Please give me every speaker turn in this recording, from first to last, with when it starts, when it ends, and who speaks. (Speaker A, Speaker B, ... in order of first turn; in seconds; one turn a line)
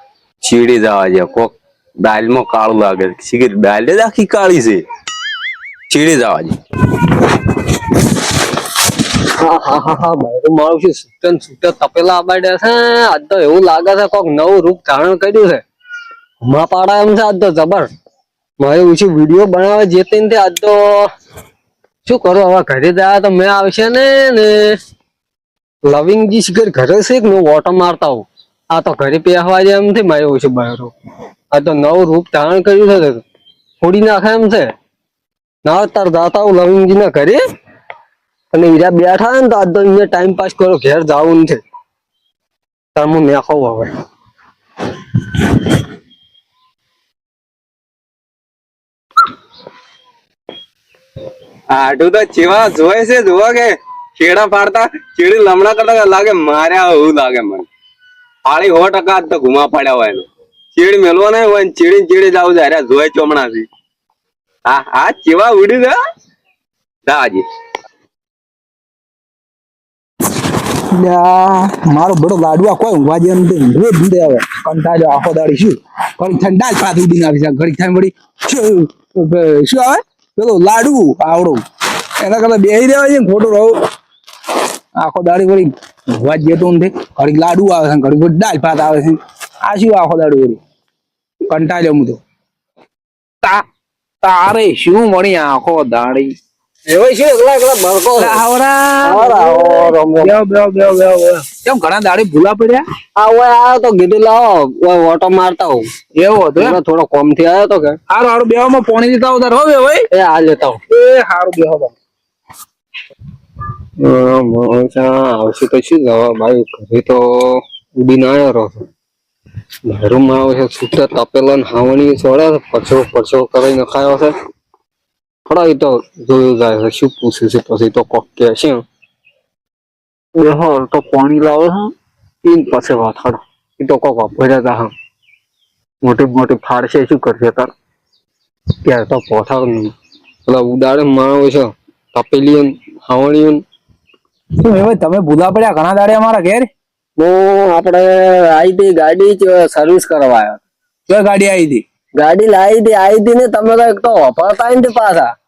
Speaker A: 0.4-4.8
Speaker A: 5.9-6.5
Speaker B: 9.3-15.6
Speaker B: 16.4-17.9
Speaker B: 18.6-21.1
Speaker B: 22.1-24.7
Speaker B: 25.9-30.9
Speaker B: 31.5-33.2
Speaker B: 33.8-34.7
Speaker B: 35.6-37.4
Speaker B: 38.5-41.6
Speaker B: 42.9-43.9
Speaker A: 51.7-57.7
Speaker A: 58.5-63.7
Speaker A: 64.7-66.0
Speaker A: 67.0-67.4
Speaker C: 70.7-81.6
Speaker C: 82.2-83.7
Speaker C: 85.0-90.6
Speaker C: 91.5-92.2
Speaker C: 94.2-96.3
Speaker B: 96.9-98.4
Speaker C: 98.2-102.8
Speaker B: 99.0-100.3
Speaker B: 103.2-105.9
Speaker C: 106.2-106.8
Speaker B: 106.6-108.0
Speaker C: 108.1-110.0
Speaker B: 110.1-110.8
Speaker C: 110.9-112.0
Speaker B: 114.0-118.8
Speaker B: 119.9-124.3
Speaker B: 125.5-128.8
Speaker B: 130.4-131.9
Speaker B: 132.4-134.9
Speaker B: 136.0-137.7
Speaker B: 138.8-139.9
Speaker B: 140.4-143.6
Speaker C: 144.6-146.7
Speaker B: 147.2-150.6
Speaker C: 151.1-151.8
Speaker B: 152.2-155.3